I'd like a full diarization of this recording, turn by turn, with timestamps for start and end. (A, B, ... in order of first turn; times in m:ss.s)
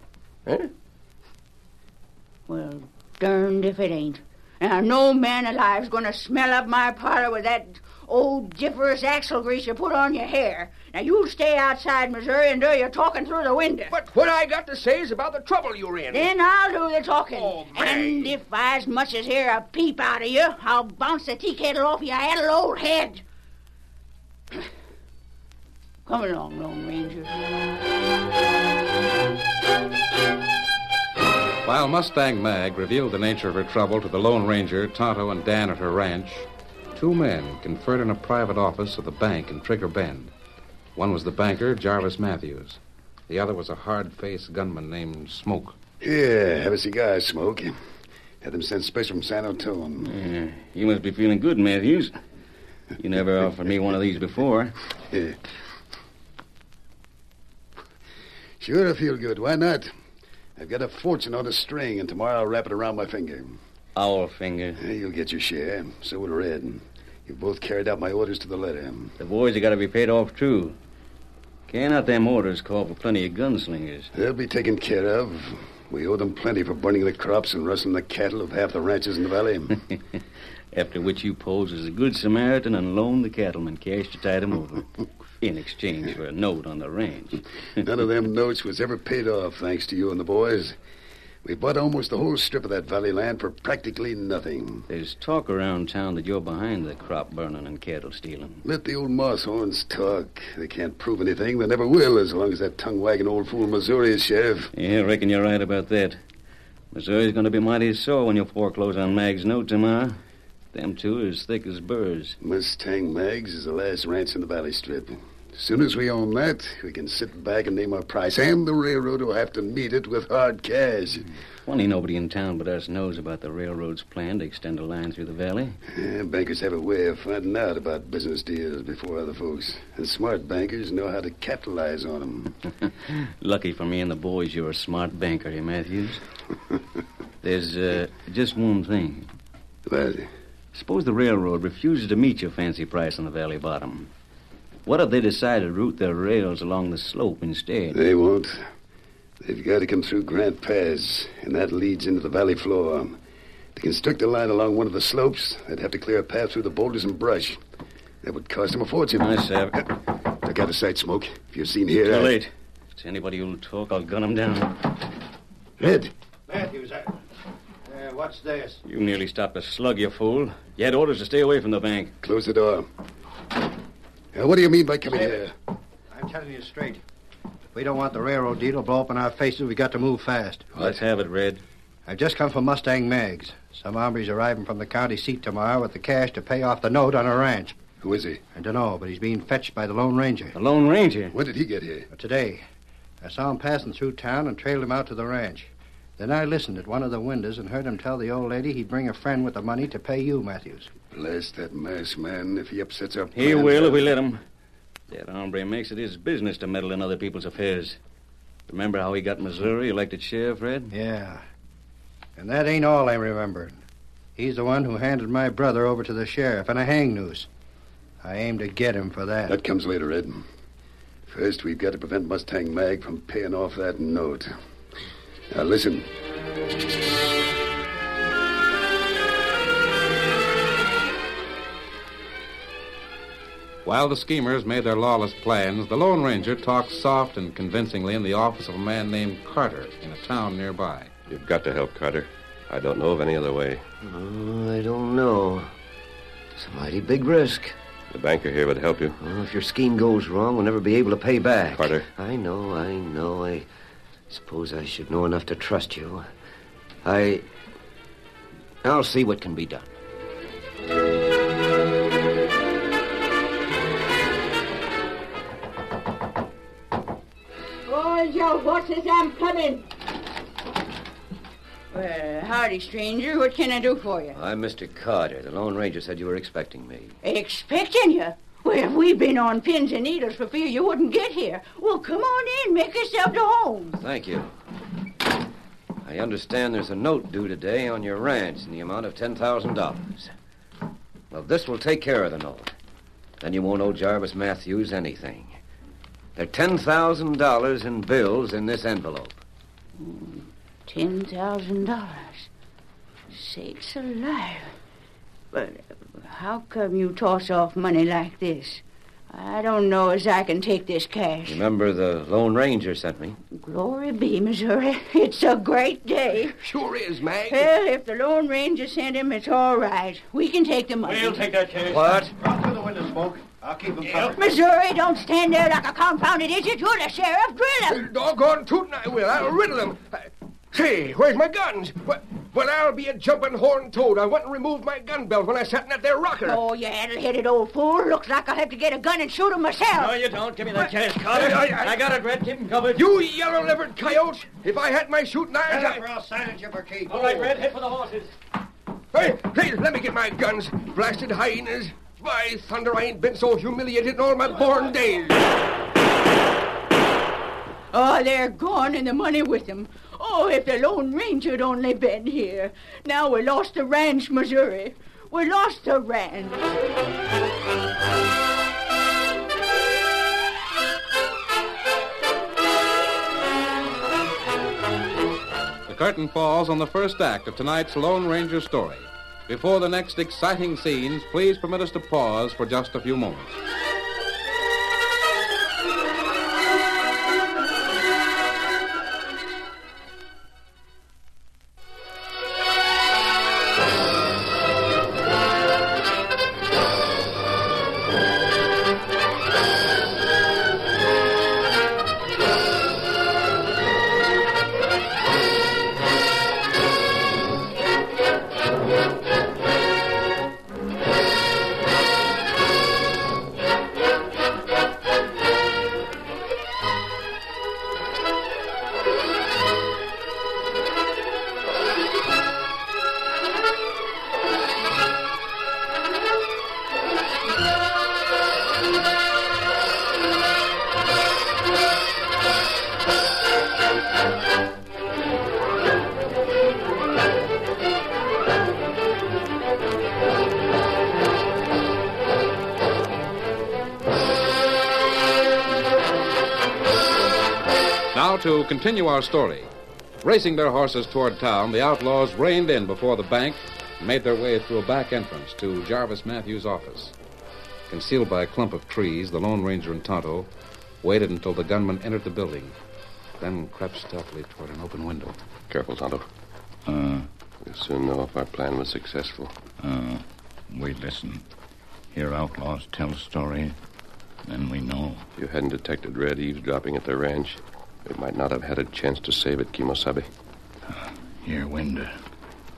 0:00.4-0:00.7 A
0:02.5-0:13.9 B
0:13.9-0:16.3 A
0:16.1-0:23.2 B
0:17.3-0:18.3 A
0:26.0-0:27.3 B
0:31.6-0:40.3 C
0:41.0-0:45.7 C
0:46.0-0:47.7 D
0:48.4-0:50.1 D
0:50.0-0:52.1 E
0:53.0-0:54.8 E
0:58.6-0:59.9 D
1:00.6-1:03.6 D
1:03.9-1:04.8 E
1:04.8-1:09.1 D
1:09.2-1:10.8 E
1:11.7-1:14.1 E
1:14.1-1:19.8 D
1:20.7-1:27.4 E
1:27.8-1:30.7 D
1:31.4-1:34.8 D
1:34.9-1:38.6 E
1:38.6-1:44.7 D
1:44.7-1:46.2 E
1:46.9-1:50.2 E
1:50.7-1:52.4 E
1:52.4-2:01.3 D
2:01.6-2:05.8 E
2:05.9-2:12.5 D
2:13.0-2:16.2 E
2:17.4-2:19.3 E
2:19.9-2:20.3 D
2:20.7-2:24.1 E
2:24.8-2:28.0 E
2:27.9-2:28.6 D
2:29.4-2:33.2 D
2:33.8-2:37.6 D
2:38.2-2:39.4 D
2:39.2-2:39.8 E
2:40.4-2:42.4 D
2:42.0-2:45.0 E
2:45.8-2:46.1 D
2:46.5-2:47.2 F
2:47.8-2:48.8 F
2:48.8-2:52.1 E
2:52.2-2:52.9 D
2:54.3-2:55.5 D
2:56.1-2:57.0 F
2:57.7-3:00.7 F
3:00.7-3:01.6 E
3:02.0-3:07.8 F
3:08.0-3:08.4 D
3:08.5-3:10.6 F
3:10.5-3:11.3 E
3:11.3-3:12.1 D
3:12.1-3:12.6 F
3:13.2-3:20.9 F
3:21.1-3:24.1 D
3:23.3-3:24.4 E
3:25.1-3:28.0 E
3:28.7-3:30.9 E
3:30.9-3:31.4 F
3:32.4-3:33.8 F
3:34.4-3:37.5 F
3:38.2-3:39.6 F
3:39.5-3:40.4 D
3:41.3-3:44.5 D
3:45.5-3:46.1 D
3:53.8-4:01.1 C
4:01.3-4:03.8 G
4:04.0-4:05.7 H
4:06.6-4:07.7 H
4:08.1-4:09.2 G
4:09.2-4:13.7 H
4:11.7-4:12.1 G
4:14.3-4:16.2 H
4:17.0-4:17.4 H
4:18.8-4:19.9 H
4:27.9-4:29.8 B
4:31.9-4:34.4 B
4:34.3-4:37.1 H
4:37.2-4:44.0 B
4:44.0-4:44.5 H
4:46.0-4:50.3 H
4:51.3-4:52.7 H
4:53.4-4:55.6 H
4:56.4-4:59.4 H
5:00.0-5:02.5 B
5:03.3-5:04.7 B
5:05.5-5:11.6 B
5:11.4-5:13.4 H
5:13.5-5:16.6 B
5:16.6-5:17.7 A
5:17.5-5:21.4 B
5:21.2-5:22.1 E
5:21.9-5:22.3 H
5:22.0-5:24.5 F
5:24.2-5:28.1 B
5:27.9-5:36.6 A
5:36.4-5:40.2 B
5:40.0-5:43.0 E
5:41.3-5:41.9 A
5:42.9-5:46.0 A
5:45.6-5:47.5 F
5:47.1-5:48.2 E
5:49.1-5:55.5 A
5:57.9-6:06.6 B
6:15.8-6:23.6 C
7:28.1-7:29.7 C
7:30.2-7:37.1 C
7:37.9-7:40.5 C
7:41.0-7:42.8 C
7:43.4-7:45.4 C
7:45.7-7:46.2 G
7:46.8-7:47.3 I
7:47.6-7:49.6 G
7:49.8-7:51.4 I
7:52.1-7:53.8 I
7:54.5-7:55.2 I
7:55.4-8:00.3 G
8:00.9-8:02.1 I